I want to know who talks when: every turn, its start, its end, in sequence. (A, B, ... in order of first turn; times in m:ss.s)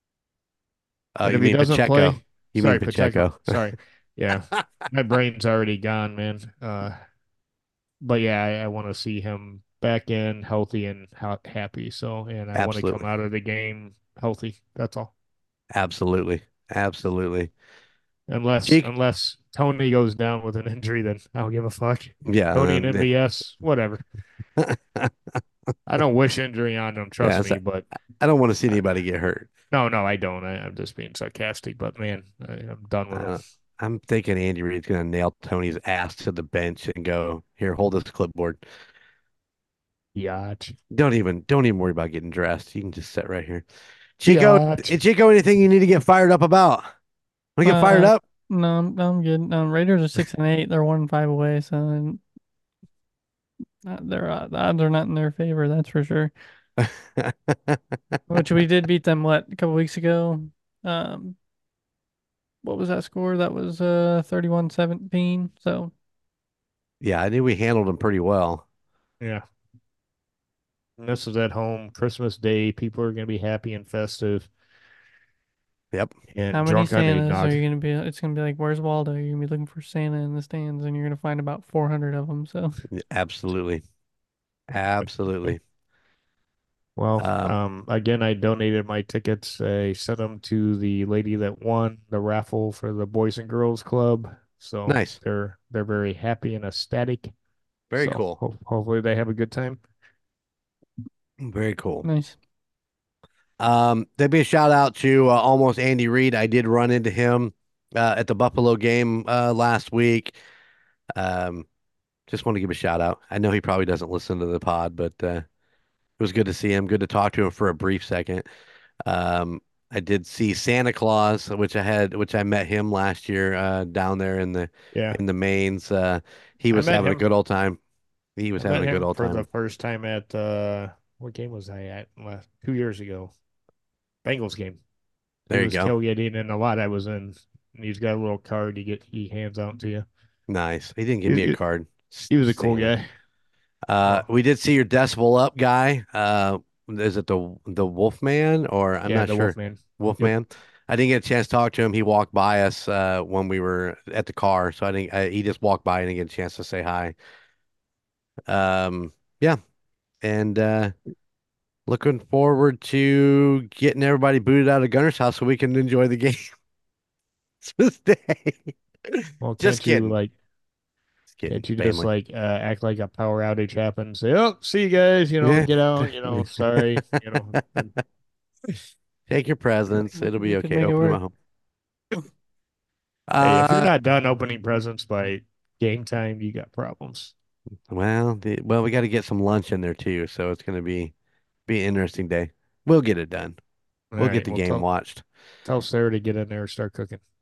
0:01.2-0:03.5 A
0:01.2-0:07.0 B
0:08.0-0:15.1 B
0:12.5-0:13.0 A
0:15.7-0:17.5 A
0:18.3-0:24.0 B
0:22.2-0:23.1 A
0:24.6-0:25.1 A
0:25.9-0:27.8 B
0:27.2-0:27.6 A
0:28.2-0:29.5 A
0:29.7-0:33.4 B
0:33.1-0:38.6 A
0:40.1-0:40.7 B
0:40.9-0:43.6 A
0:44.2-0:46.9 A
0:44.2-0:45.0 B
0:47.6-0:48.2 A
0:47.6-0:52.2 C
0:53.8-0:56.3 C
0:56.8-0:58.2 A
0:58.3-1:01.4 C
1:02.6-1:05.9 C
1:07.0-1:08.6 A
1:11.0-1:14.5 B
1:16.3-1:17.6 B
1:16.5-1:22.8 C
1:22.9-1:23.8 A
1:24.7-1:25.6 A
1:25.0-1:25.5 B
1:27.0-1:37.3 B
1:27.2-1:27.6 A
1:34.8-1:35.2 A
1:37.9-1:38.4 A
1:38.0-1:39.8 B
1:41.4-1:42.0 A
1:42.0-1:42.4 C
1:43.6-1:50.3 A
1:51.2-1:51.7 A
1:52.3-1:55.4 A
1:56.2-1:58.4 A
1:59.0-2:07.8 A
2:04.9-2:05.2 B
2:06.7-2:07.2 B
2:08.4-2:09.4 A
2:08.6-2:13.3 B
2:14.2-2:14.8 B
2:15.5-2:20.0 B
2:15.5-2:15.9 A
2:20.5-2:22.9 A
2:21.2-2:21.6 B
2:22.3-2:23.0 B
2:23.9-2:37.1 A
2:29.0-2:30.3 B
2:38.5-2:39.6 A
2:40.2-2:40.9 A
2:41.9-2:46.5 A
2:47.6-2:50.2 A
2:49.4-2:50.3 B
2:51.3-2:52.1 A
2:51.5-2:57.9 B
2:55.4-2:56.8 A
2:59.3-3:01.3 A
3:00.1-3:01.2 C
3:03.3-3:03.9 A
3:03.4-3:07.3 B
3:07.9-3:11.1 A
3:11.7-3:13.6 A
3:14.1-3:14.8 B
3:14.2-3:15.2 A
3:15.6-3:17.2 B